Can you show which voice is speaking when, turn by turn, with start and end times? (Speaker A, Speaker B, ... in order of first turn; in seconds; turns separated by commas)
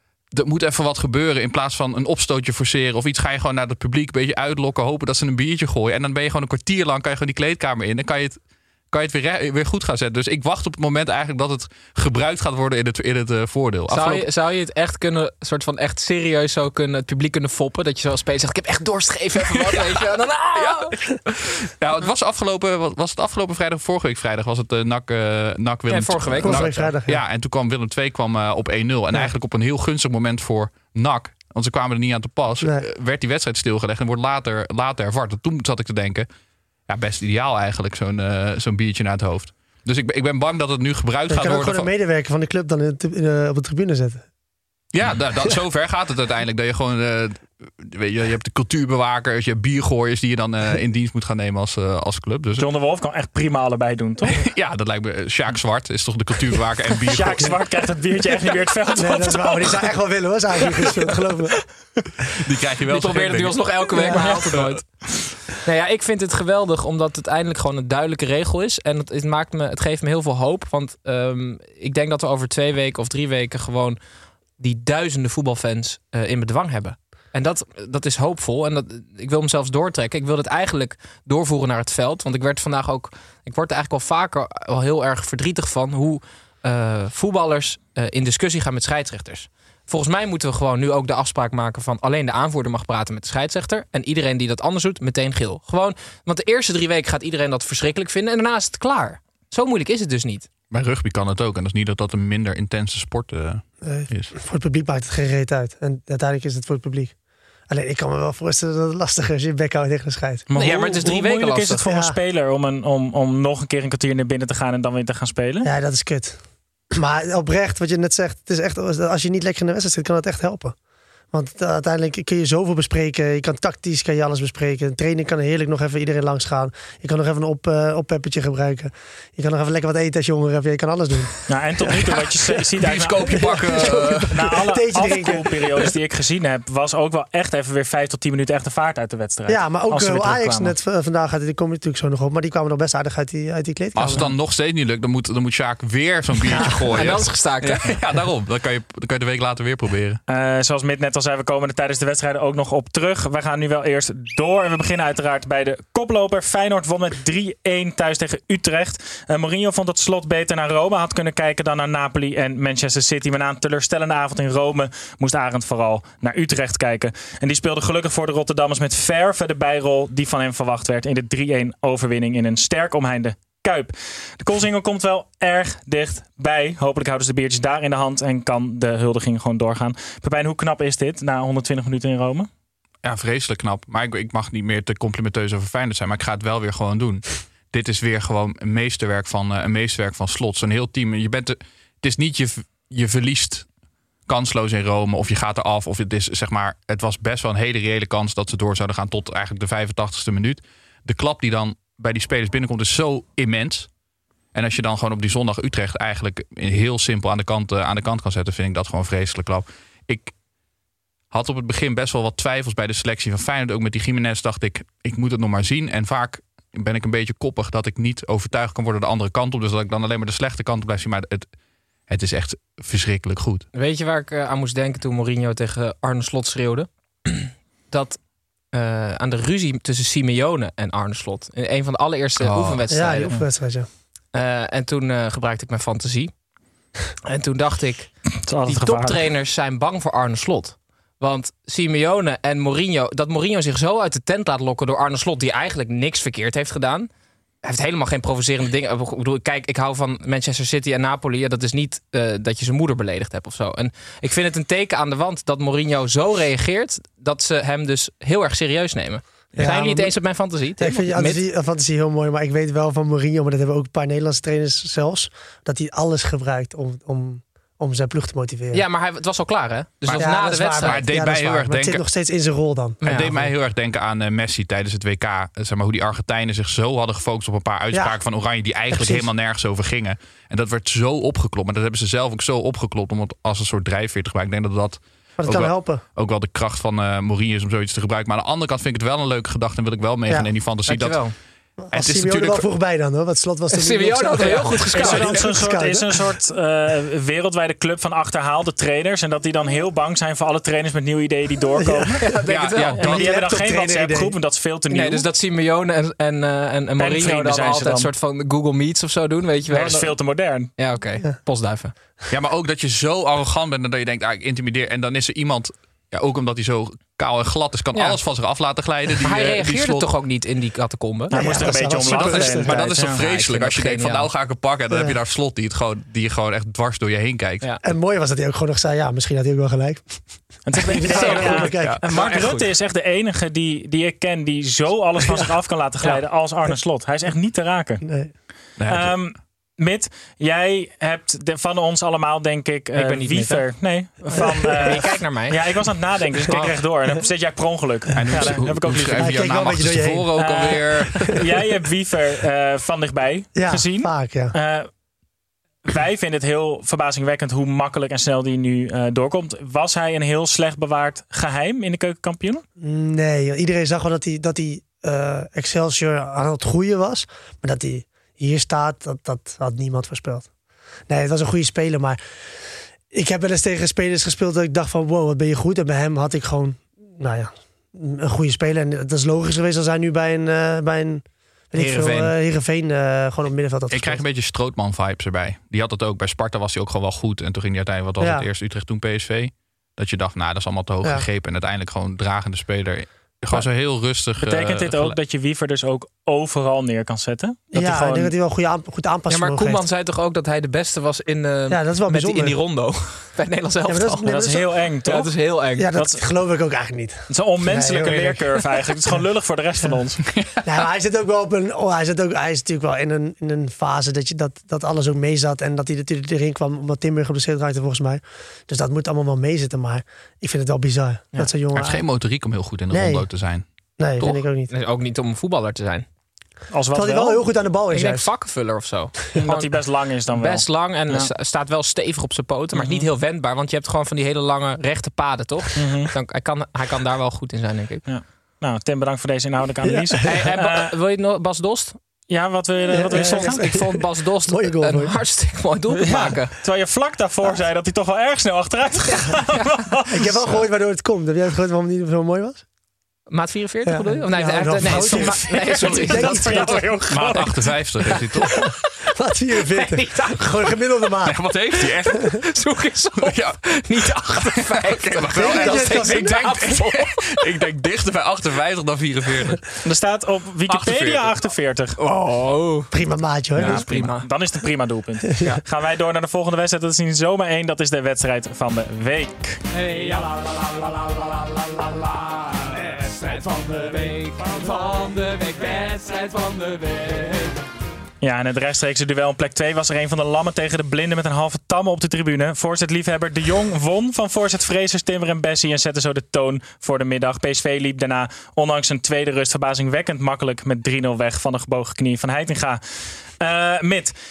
Speaker A: 0.3-8.4, Speaker A: 8.9-14.3, Speaker B: 13.9-21.0, Speaker A: 19.5-19.8, Speaker A: 20.6-36.3, Speaker B: 25.9-26.9, Speaker C: 26.4-27.2, Speaker C: 32.6-32.9, Speaker A: 36.9-41.9, Speaker C: 41.3-44.2, Speaker A: 44.9-52.7, Speaker D: 52.6-54.4, Speaker A: 54.3-57.5, Speaker D: 57.1-59.8, Speaker C: 59.0-61.6, Speaker A: 62.4-63.7, Speaker B: 62.9-64.8, Speaker C: 64.0-64.2, Speaker D: 64.0-64.8, Speaker B: 65.6-74.0, Speaker B: 74.6-100.5, Speaker A: 100.7-104.3, Speaker C: 103.8-107.1, Speaker C: 107.7-110.4, Speaker D: 110.5-115.7, Speaker B: 110.5-111.8, Speaker C: 111.8-112.2, Speaker C: 115.6-116.4, Speaker C: 116.9-120.7, Speaker C: 121.3-131.9, Speaker D: 131.5-140.7, Speaker A: 132.8-134.5, Speaker C: 133.2-135.8, Speaker C: 139.5-144.3, Speaker A: 143.9-150.2, Speaker C: 146.4-146.7, Speaker B: 146.9-147.9, Speaker D: 150.3-182.5, Speaker A: 183.0-193.7, Speaker A: 194.3-203.9, Speaker A: 204.5-210.3, Speaker A: 211.3-221.5, Speaker A: 222.1-223.7, Speaker B: 223.7-228.2, Speaker B: 228.7-233.4, Speaker A: 232.4-232.8, Speaker C: 232.9-233.9, Speaker B: 234.3-236.3, Speaker B: 237.2-238.1, Speaker D: 238.4-239.2, Speaker B: 238.6-247.1, Speaker B: 247.6-261.4, Speaker C: 259.6-260.2, Speaker C: 260.8-268.8, Speaker B: 268.7-271.1, Speaker A: 270.0-272.0, Speaker C: 270.1-273.5, Speaker B: 273.0-273.3, Speaker A: 273.0-291.2, Speaker C: 277.9-278.2, Speaker C: 278.9-279.3, Speaker C: 285.4-286.0, Speaker B: 290.9-291.3, Speaker C: 291.8-296.3, Speaker A: 291.9-292.7, Speaker B: 293.7-295.6, Speaker D: 294.9-302.2, Speaker C: 301.8-302.3, Speaker B: 302.2-303.0, Speaker A: 302.4-303.3, Speaker D: 303.0-305.3, Speaker C: 303.0-304.3, Speaker B: 304.9-310.1, Speaker D: 307.0-308.1, Speaker D: 309.7-310.7, Speaker B: 310.8-311.9, Speaker A: 312.3-320.1, Speaker B: 317.9-318.2, Speaker B: 319.2-321.4, Speaker D: 321.3-323.2, Speaker C: 321.3-322.8, Speaker A: 322.1-327.7, Speaker B: 322.7-324.3, Speaker C: 324.9-325.1, Speaker C: 327.8-330.2, Speaker D: 330.6-338.0, Speaker C: 330.7-332.0, Speaker B: 331.1-331.7, Speaker A: 331.8-332.6, Speaker C: 338.0-338.3, Speaker A: 338.8-339.1, Speaker D: 338.9-349.4, Speaker B: 342.9-343.6, Speaker B: 344.3-345.6, Speaker A: 348.1-351.4, Speaker C: 349.1-350.5, Speaker D: 350.3-354.9, Speaker C: 353.5-354.5, Speaker D: 355.9-362.6, Speaker C: 362.8-370.5, Speaker C: 371.1-372.2, Speaker C: 373.1-384.2, Speaker B: 381.8-382.3, Speaker A: 383.9-395.2, Speaker C: 388.2-388.5, Speaker D: 394.4-398.3, Speaker C: 397.7-399.8, Speaker B: 399.3-404.4, Speaker C: 401.7-402.6, Speaker C: 403.9-404.7, Speaker D: 404.3-405.3, Speaker B: 405.0-405.9, Speaker C: 405.8-408.6, Speaker D: 405.9-406.2, Speaker D: 407.3-410.2, Speaker C: 410.6-422.0, Speaker A: 421.7-423.6, Speaker C: 422.9-423.3, Speaker C: 424.0-424.7, Speaker B: 424.7-426.1, Speaker D: 426.7-427.4, Speaker C: 426.9-428.3, Speaker B: 427.9-429.7, Speaker D: 429.3-431.3, Speaker B: 430.3-438.0, Speaker D: 432.7-433.1, Speaker D: 435.8-436.1, Speaker D: 438.1-440.9, Speaker C: 439.8-440.4, Speaker B: 440.2-442.0, Speaker D: 442.3-443.6, Speaker C: 442.9-445.2, Speaker B: 443.0-446.5, Speaker D: 446.0-450.4, Speaker B: 449.5-449.8, Speaker C: 450.1-452.6, Speaker B: 453.3-456.9, Speaker C: 453.8-457.0, Speaker D: 454.8-457.7, Speaker A: 457.1-458.6, Speaker C: 458.4-461.4, Speaker B: 459.7-460.8, Speaker A: 461.2-462.4, Speaker B: 462.3-467.3, Speaker A: 463.2-463.8, Speaker A: 464.3-469.8, Speaker C: 465.3-466.6, Speaker D: 469.8-472.0, Speaker A: 470.7-471.4, Speaker B: 472.0-472.9, Speaker C: 472.9-473.9, Speaker B: 473.6-474.3, Speaker A: 473.6-474.2, Speaker D: 473.6-479.6, Speaker E: 479.7-487.6, Speaker D: 488.2-502.8, Speaker D: 503.4-504.1